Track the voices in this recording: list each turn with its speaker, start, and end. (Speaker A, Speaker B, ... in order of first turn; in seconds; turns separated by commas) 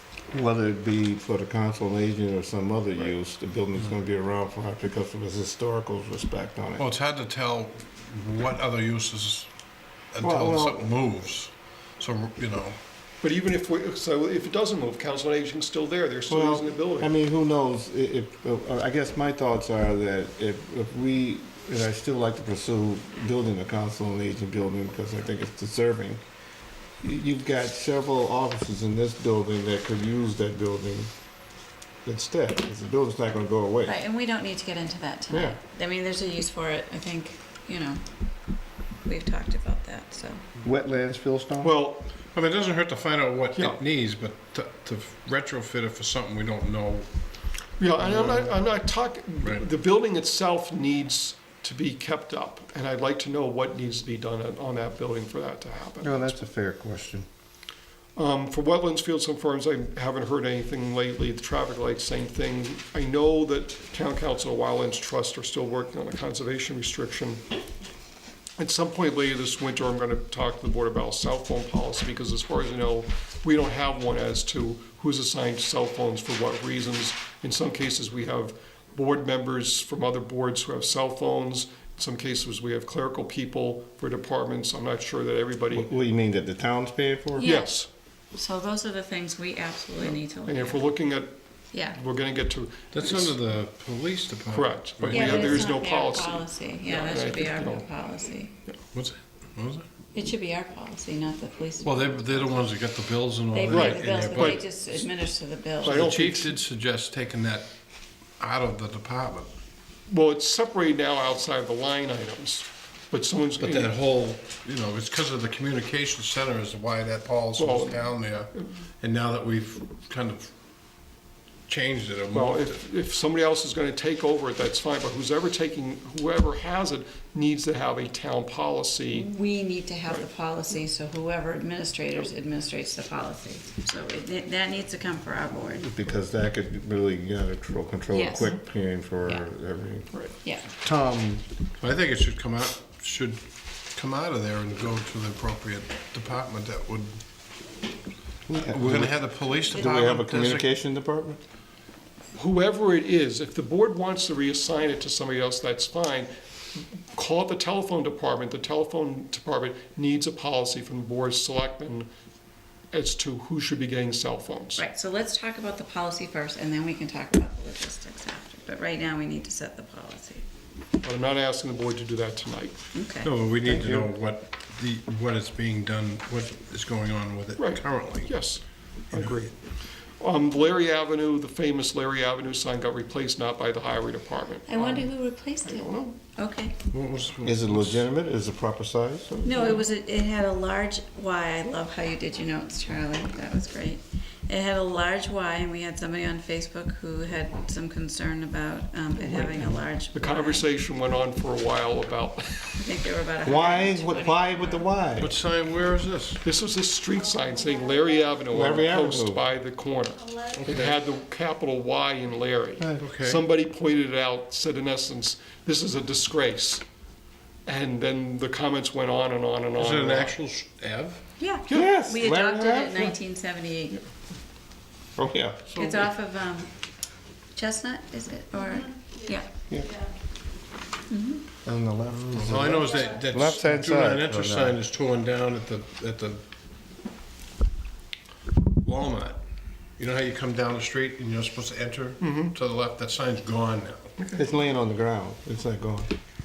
Speaker A: 0.3-6.8, Speaker B: 6.8-9.5, Speaker B: 10.1-12.8, Speaker A: 10.2-10.9, Speaker C: 13.2-17.1, Speaker A: 16.3-26.2, Speaker A: 27.0-31.1, Speaker A: 32.0-34.0, Speaker D: 33.8-38.0, Speaker A: 35.3-35.6, Speaker D: 39.0-40.4, Speaker A: 40.6-41.8, Speaker C: 41.6-42.1, Speaker B: 42.3-47.1, Speaker C: 43.5-43.8, Speaker C: 47.8-56.4, Speaker B: 48.0-48.6, Speaker A: 56.0-57.2, Speaker C: 58.1-67.4, Speaker C: 68.6-85.9, Speaker A: 85.7-87.5, Speaker D: 87.3-87.7, Speaker C: 87.4-87.9, Speaker D: 88.3-90.8, Speaker C: 90.0-93.3, Speaker D: 91.7-92.0, Speaker B: 92.9-95.7, Speaker C: 94.5-97.9, Speaker D: 95.1-98.5, Speaker B: 98.9-99.9, Speaker D: 100.1-102.7, Speaker B: 101.8-104.8, Speaker D: 103.5-106.0, Speaker C: 103.7-104.6, Speaker C: 105.8-106.5, Speaker B: 105.8-107.7, Speaker B: 108.4-109.5, Speaker C: 110.1-114.0, Speaker B: 113.6-120.5, Speaker C: 117.6-118.7, Speaker B: 121.7-122.8, Speaker C: 122.3-129.3, Speaker D: 129.1-135.9, Speaker A: 135.8-140.1, Speaker D: 138.1-138.6, Speaker D: 140.4-140.7, Speaker A: 140.7-141.4, Speaker B: 141.8-147.2, Speaker A: 148.5-149.1, Speaker B: 148.5-150.7, Speaker A: 149.7-151.4, Speaker C: 152.3-156.3, Speaker C: 157.1-162.1, Speaker C: 162.9-164.8, Speaker D: 164.8-170.4, Speaker C: 171.0-172.8, Speaker D: 172.9-173.3, Speaker B: 173.2-178.3, Speaker A: 173.6-174.1, Speaker C: 177.6-179.6, Speaker C: 180.2-186.2, Speaker D: 184.7-186.7, Speaker B: 186.9-188.0, Speaker A: 187.4-189.8, Speaker D: 189.4-200.7, Speaker C: 199.3-202.8, Speaker D: 202.8-204.9, Speaker A: 203.4-205.3, Speaker B: 205.2-206.4, Speaker C: 206.4-216.8, Speaker A: 208.5-209.4, Speaker B: 210.6-210.9, Speaker B: 213.0-213.4, Speaker C: 217.7-220.4, Speaker B: 219.8-221.2, Speaker D: 221.4-224.0, Speaker C: 221.7-221.9, Speaker A: 221.7-223.1, Speaker A: 225.2-225.6, Speaker B: 225.7-226.1, Speaker D: 225.8-226.7, Speaker D: 227.5-229.5, Speaker D: 231.1-231.4, Speaker A: 231.6-234.8, Speaker B: 232.3-236.4, Speaker B: 238.8-239.4, Speaker B: 240.0-244.2, Speaker C: 242.2-242.5, Speaker A: 244.3-246.1